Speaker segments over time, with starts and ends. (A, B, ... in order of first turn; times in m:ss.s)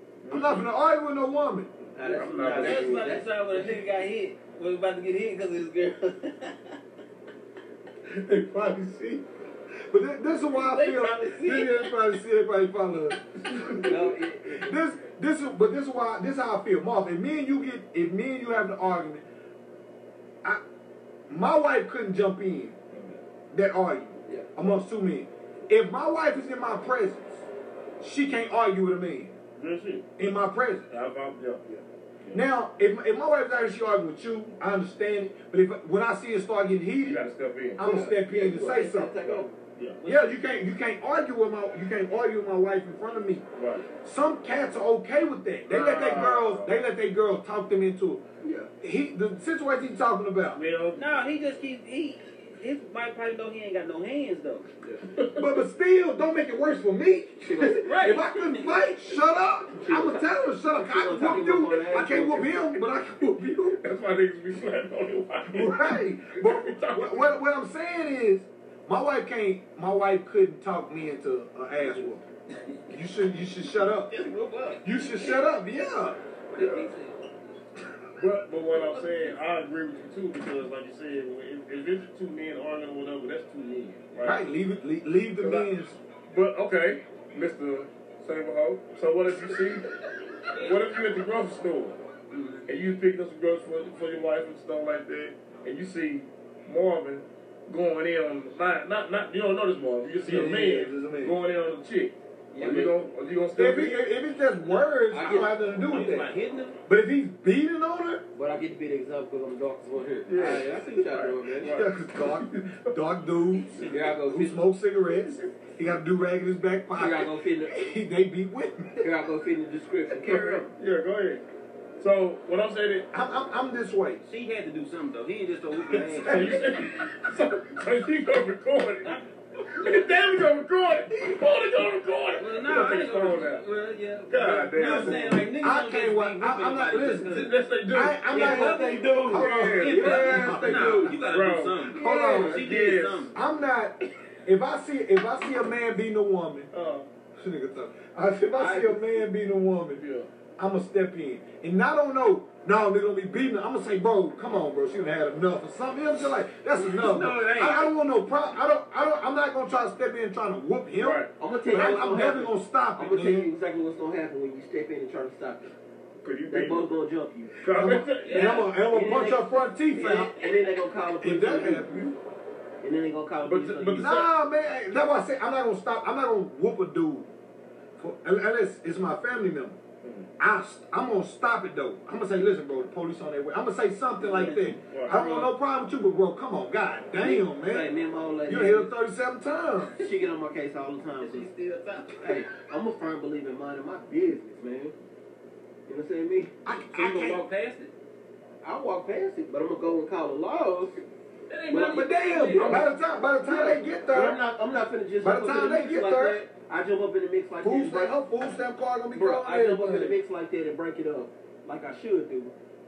0:00.2-0:00.7 A
0:00.3-0:01.7 B
0:02.0-0:03.8 C
0:02.0-0:03.1 A
0:02.5-0:06.7 D
0:08.1-0:19.2 B
0:10.5-0:11.9 D
0:13.8-0:14.8 C
0:21.3-0:22.8 B
0:22.9-0:23.2 A
0:23.5-0:27.4 B
0:28.0-0:29.3 B
0:29.6-0:30.1 A
0:30.2-0:30.9 B
0:30.9-0:32.4 A
0:32.3-0:37.2 B
0:37.0-0:37.8 A
0:37.8-0:39.2 B
0:37.8-0:39.5 C
0:39.2-0:40.1 A
0:40.0-0:43.4 B
0:43.6-0:43.8 A
0:44.0-0:48.2 B
0:45.7-0:46.8 A
0:48.4-0:48.7 C
0:48.8-0:50.6 B
0:50.5-0:51.0 A
0:50.9-0:54.7 D
0:55.2-0:55.5 A
0:55.3-1:03.8 B
0:57.4-0:58.0 C
0:57.6-0:58.9 D
0:59.7-1:02.7 C
1:03.8-1:07.3 A
1:05.5-1:12.2 B
1:12.9-1:14.2 B
1:13.9-1:15.4 D
1:14.8-1:16.2 B
1:16.5-1:17.3 D
1:16.6-1:16.9 A
1:18.2-1:24.4 A
1:18.7-1:19.4 D
1:24.2-1:26.0 B
1:25.4-1:25.7 A
1:26.3-1:29.9 A
1:30.6-1:32.0 A
1:32.6-1:44.0 A
1:40.2-1:41.4 B
1:42.5-1:43.0 C
1:43.5-1:46.3 B
1:45.1-1:45.6 C
1:45.2-1:46.8 D
1:46.9-1:48.2 B
1:48.3-1:51.8 C
1:50.2-1:52.9 A
1:51.6-1:59.1 B
1:53.8-1:54.6 C
1:57.0-1:57.7 C
1:59.0-2:00.7 C
2:00.2-2:01.4 A
2:02.0-2:03.0 A
2:03.1-2:04.2 B
2:04.2-2:06.6 D
2:05.9-2:06.9 B
2:06.2-2:09.2 A
2:09.0-2:10.1 D
2:09.7-2:13.6 A
2:12.4-2:17.6 D
2:14.3-2:15.4 A
2:14.8-2:21.2 B
2:17.2-2:20.3 A
2:18.3-2:23.3 D
2:18.3-2:21.2 C
2:21.2-2:23.3 A
2:21.9-2:22.7 B
2:22.0-2:22.4 C
2:23.3-2:26.7 B
2:26.7-2:27.1 A
2:27.4-2:30.0 B
2:28.6-2:29.0 C
2:30.0-2:30.3 A
2:30.6-2:43.5 B
2:36.8-2:37.9 D
2:41.0-2:41.3 A
2:41.4-2:45.7 C
2:46.2-2:46.9 A
2:46.5-2:47.8 C
2:47.6-2:48.6 A
2:47.6-2:50.4 B
2:48.2-2:48.7 D
2:48.5-2:52.0 C
2:51.2-2:52.2 B
2:52.8-2:54.2 C
2:53.4-2:54.2 A
2:53.9-2:57.3 B
2:58.0-2:59.8 B
3:00.0-3:00.3 A
3:00.4-3:07.9 B
3:04.9-3:05.5 A
3:07.2-3:08.9 C
3:08.4-3:10.0 B
3:10.0-3:11.5 C
3:11.2-3:12.4 D
3:12.2-3:14.9 C
3:15.9-3:16.5 C
3:16.6-3:17.4 B
3:16.7-3:17.9 D
3:18.6-3:21.0 C
3:21.5-3:22.8 D
3:21.7-3:22.9 C
3:21.9-3:24.4 B
3:23.4-3:28.1 C
3:25.2-3:26.4 B
3:27.6-3:30.2 B
3:29.1-3:32.5 C